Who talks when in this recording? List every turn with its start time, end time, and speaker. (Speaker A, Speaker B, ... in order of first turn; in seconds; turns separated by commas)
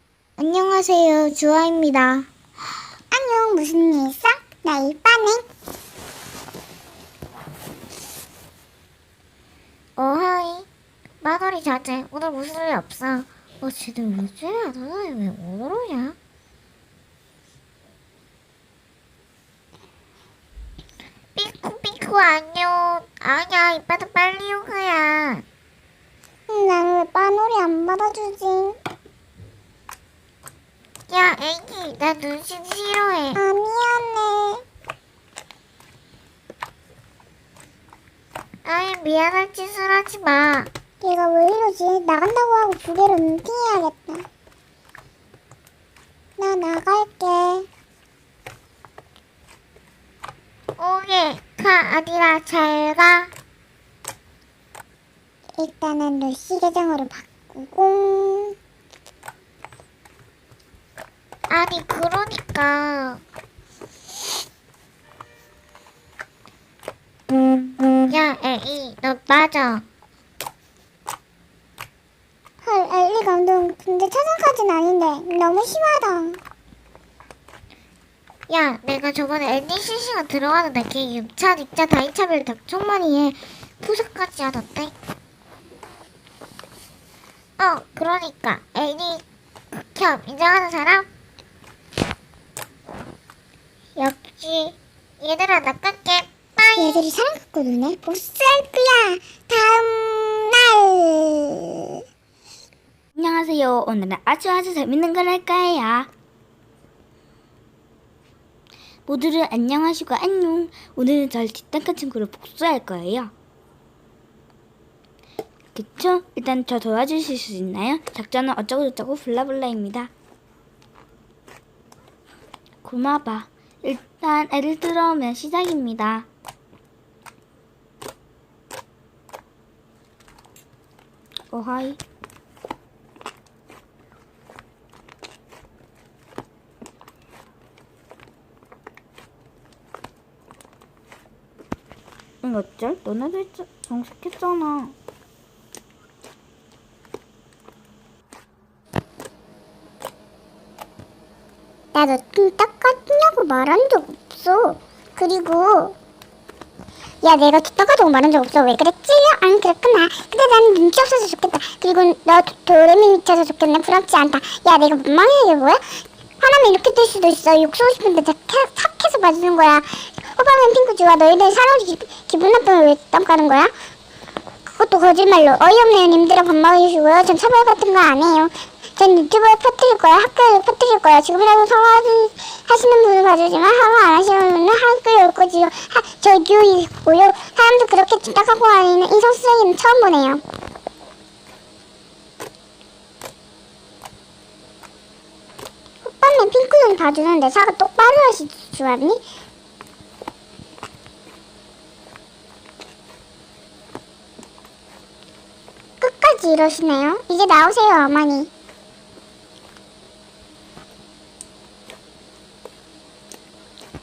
Speaker A: 0.4-2.2, Speaker B: 3.1-5.4, Speaker A: 10.0-10.7, Speaker A: 11.2-16.1, Speaker A: 21.3-25.4, Speaker B: 26.5-28.8, Speaker A: 31.1-33.4, Speaker B: 33.3-34.6, Speaker A: 38.6-40.7, Speaker B: 41.0-44.2, Speaker B: 46.4-47.7, Speaker A: 50.8-53.3, Speaker B: 55.6-58.5, Speaker A: 61.5-63.2, Speaker A: 68.1-69.8, Speaker B: 72.6-76.4, Speaker A: 78.5-84.9, Speaker A: 87.6-89.2, Speaker A: 89.9-91.0, Speaker A: 94.0-97.0, Speaker B: 96.8-101.7, Speaker C: 103.1-106.1, Speaker C: 109.0-113.3, Speaker C: 115.7-120.1, Speaker C: 122.8-126.3, Speaker C: 131.5-132.0, Speaker C: 142.4-144.9, Speaker B: 151.9-155.9, Speaker B: 157.2-165.8, Speaker B: 166.4-173.7, Speaker B: 174.7-190.4, Speaker B: 196.0-199.2, Speaker B: 206.0-208.5